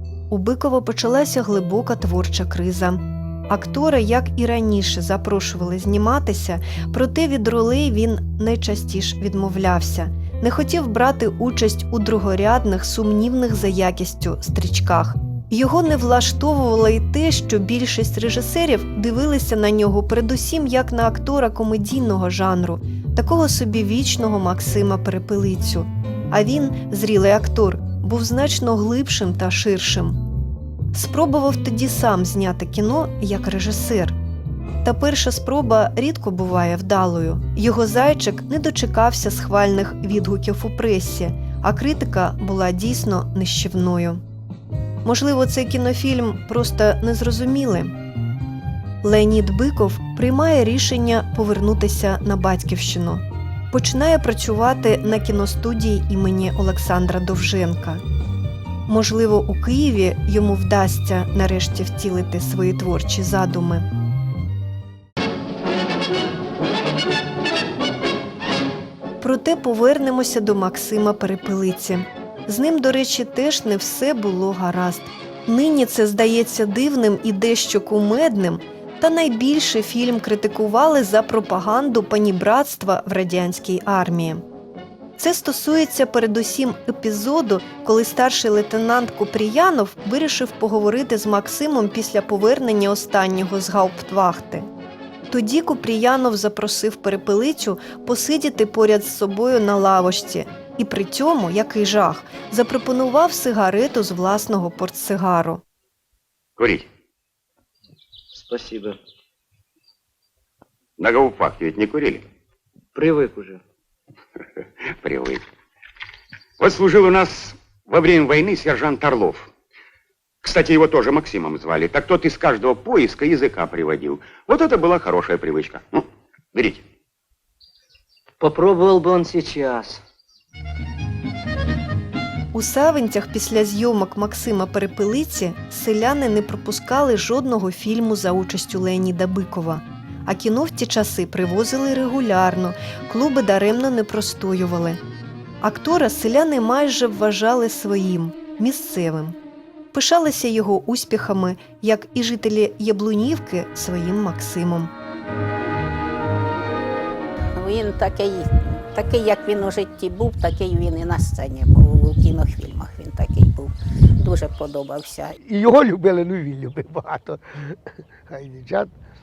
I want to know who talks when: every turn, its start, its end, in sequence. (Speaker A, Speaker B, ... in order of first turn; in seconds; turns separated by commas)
Speaker A: 0.3-30.2, Speaker A: 30.9-34.2, Speaker A: 34.8-44.2, Speaker A: 45.0-47.9, Speaker A: 49.0-58.0, Speaker A: 58.9-63.9, Speaker A: 69.2-84.4, Speaker A: 85.2-94.7, Speaker A: 95.3-105.6, Speaker B: 106.6-106.9, Speaker C: 108.3-109.0, Speaker B: 111.0-112.3, Speaker C: 113.0-113.6, Speaker B: 114.9-115.5, Speaker B: 116.6-119.5, Speaker B: 120.4-126.8, Speaker C: 128.4-129.9, Speaker A: 132.5-145.0, Speaker A: 145.6-149.4, Speaker A: 149.9-154.9, Speaker D: 157.5-165.4, Speaker E: 165.4-167.4, Speaker E: 168.3-168.9